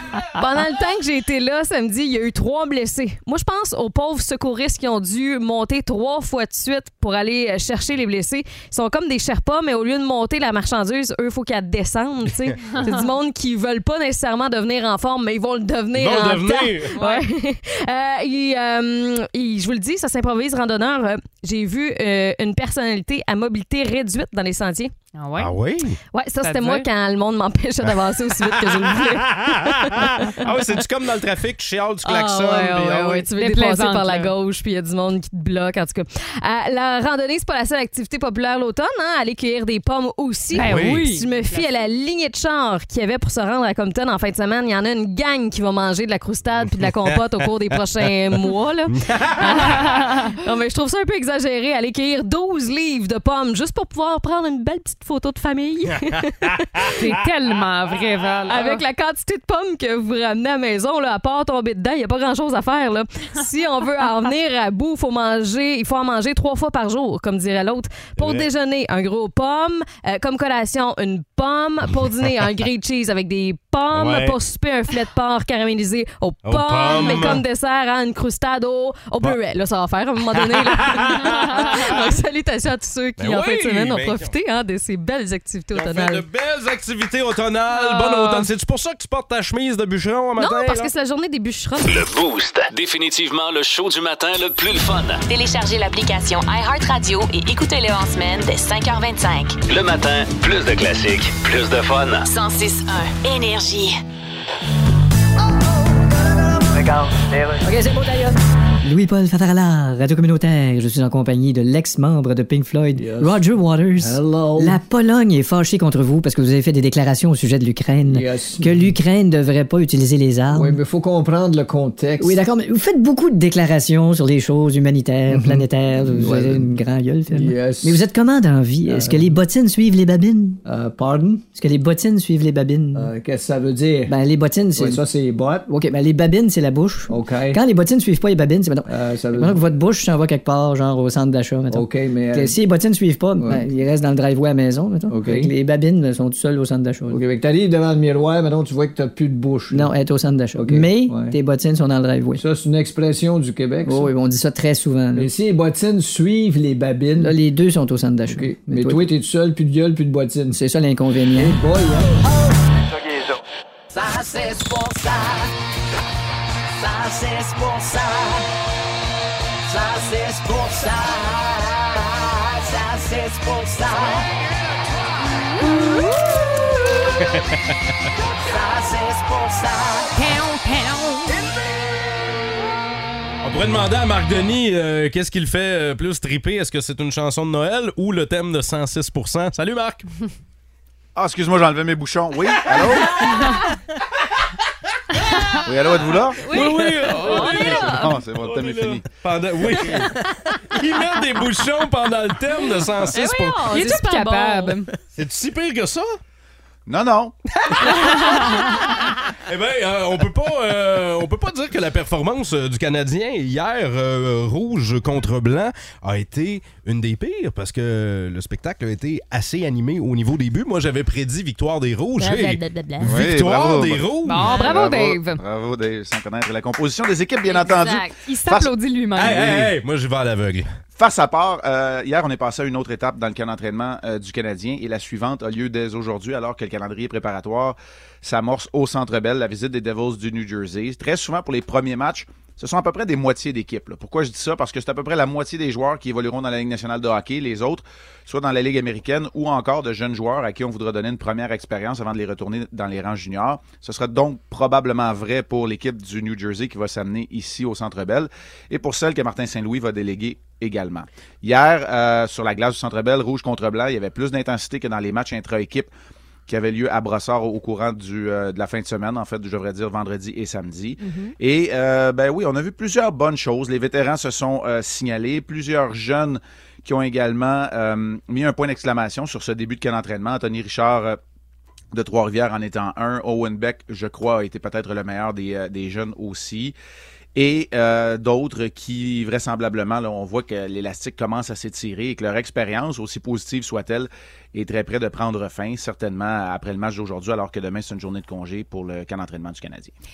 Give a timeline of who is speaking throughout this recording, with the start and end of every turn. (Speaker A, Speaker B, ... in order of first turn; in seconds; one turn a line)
Speaker A: 0.3-24.9
Speaker B: 12.7-13.0
Speaker C: 15.9-17.0
Speaker B: 16.9-17.3
Speaker B: 25.1-25.5
Speaker C: 25.4-26.0
Speaker A: 26.1-30.3
Speaker B: 26.4-26.9
Speaker C: 28.4-33.2
Speaker A: 32.0-56.9
Speaker B: 33.3-34.3
Speaker B: 40.5-41.7
Speaker C: 40.6-41.1
Speaker C: 49.0-49.9
Speaker C: 56.4-56.9
Speaker B: 57.0-58.8
Speaker A: 58.5-86.2
Speaker C: 68.2-68.5
Speaker C: 73.9-74.4
Speaker C: 76.5-77.4
Speaker C: 80.4-82.0
Speaker C: 83.2-84.3
Speaker C: 85.7-90.9
Speaker B: 87.7-88.5
Speaker A: 90.4-92.0
Speaker D: 91.8-95.2
Speaker E: 95.3-99.6
Speaker D: 99.7-102.3
Speaker E: 102.3-104.0
Speaker F: 107.6-120.8
Speaker G: 113.0-113.4
Speaker G: 114.0-114.8
Speaker G: 118.1-118.7
Speaker G: 120.5-122.4
Speaker F: 122.2-130.6
Speaker G: 125.3-126.7
Speaker G: 127.3-128.0
Speaker G: 128.9-129.3
Speaker G: 130.7-131.4
Speaker F: 131.5-133.1
Speaker G: 133.0-134.1
Speaker F: 134.1-135.0
Speaker G: 134.8-135.7
Speaker F: 135.7-147.2
Speaker G: 137.1-137.6
Speaker G: 138.9-139.6
Speaker G: 141.7-142.6
Speaker G: 143.4-143.7
Speaker G: 145.1-145.5
Speaker G: 147.1-149.9
Speaker F: 149.7-152.4
Speaker G: 150.6-151.3
Speaker G: 152.3-154.1
Speaker F: 153.8-155.3
Speaker G: 155.2-157.3
Speaker F: 157.2-159.1
Speaker G: 158.3-160.6
Speaker F: 160.5-161.6
Speaker G: 161.4-162.2
Speaker H: 163.9-165.5
Speaker H: 166.8-168.4
Speaker H: 169.7-174.3
Speaker B: 175.4-176.2
Speaker C: 177.2-177.6
Speaker H: 178.5-180.1
Speaker B: 180.2-181.5
Speaker C: 183.4-190.1
Speaker I: 191.2-193.4
Speaker C: 192.7-193.4
Speaker I: 195.7-196.7
Speaker A: 196.4-198.1
Speaker C: 196.5-203.7
Speaker I: 197.4-199.1
Speaker A: 203.1-204.8
Speaker B: 203.7-204.9
Speaker C: 205.1-206.2
Speaker I: 206.9-207.9
Speaker C: 207.7-224.6
Speaker B: 208.1-208.7
Speaker A: 222.2-223.2
Speaker I: 223.0-228.7
Speaker B: 224.2-225.4
Speaker A: 227.5-228.2
Speaker B: 228.2-229.7
Speaker C: 229.2-230.7
Speaker I: 231.0-265.9
Speaker I: 266.5-281.2
Speaker B: 271.0-271.3
Speaker I: 281.9-286.8
Speaker I: 287.4-299.9